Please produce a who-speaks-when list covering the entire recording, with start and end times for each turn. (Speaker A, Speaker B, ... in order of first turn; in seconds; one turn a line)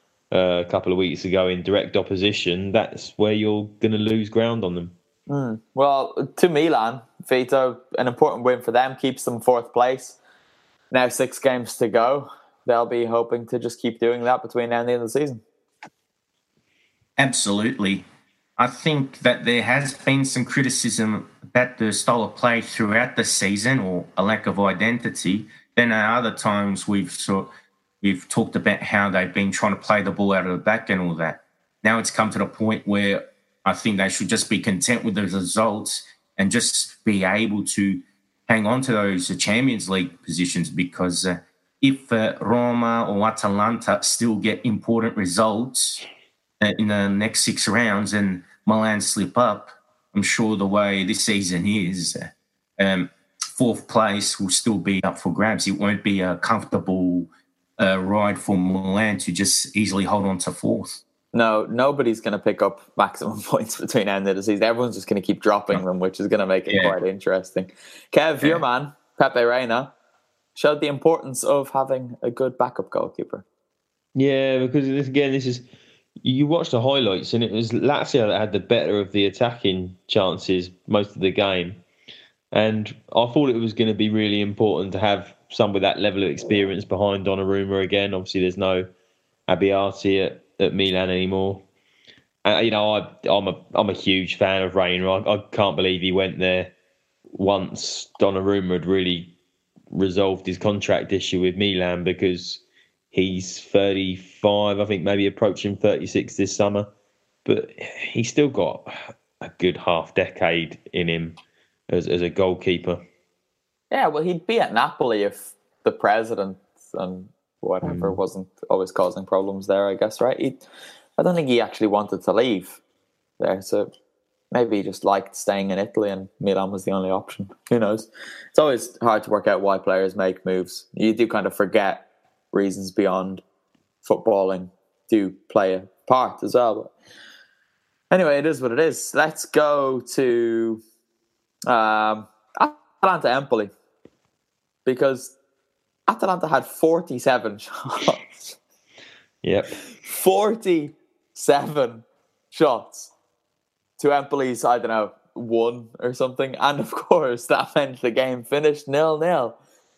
Speaker A: 0.3-5.0
Speaker B: 5.3-10.2
Speaker B: 10.9-15.4
Speaker C: 17.2-18.1
Speaker C: 18.6-27.5
Speaker C: 28.0-46.1
Speaker C: 46.6-61.0
Speaker B: 61.3-69.9
Speaker C: 66.7-67.0
Speaker B: 70.6-73.5
Speaker A: 74.2-75.7
Speaker A: 76.2-81.8
Speaker A: 82.5-88.9
Speaker A: 89.5-91.7
Speaker A: 92.4-96.7
Speaker A: 97.3-99.3
Speaker A: 99.9-106.9
Speaker A: 107.5-111.4
Speaker A: 111.9-113.0
Speaker B: 113.9-120.7
Speaker A: 117.8-118.2
Speaker B: 121.2-122.8
Speaker B: 123.4-123.9
Speaker B: 124.5-133.4
Speaker B: 134.0-136.9
Speaker B: 138.1-140.8
Speaker B: 141.7-143.7
Speaker B: 144.9-145.3
Speaker B: 146.1-148.3
Speaker A: 149.4-149.8
Speaker B: 150.1-153.1
Speaker B: 154.0-159.6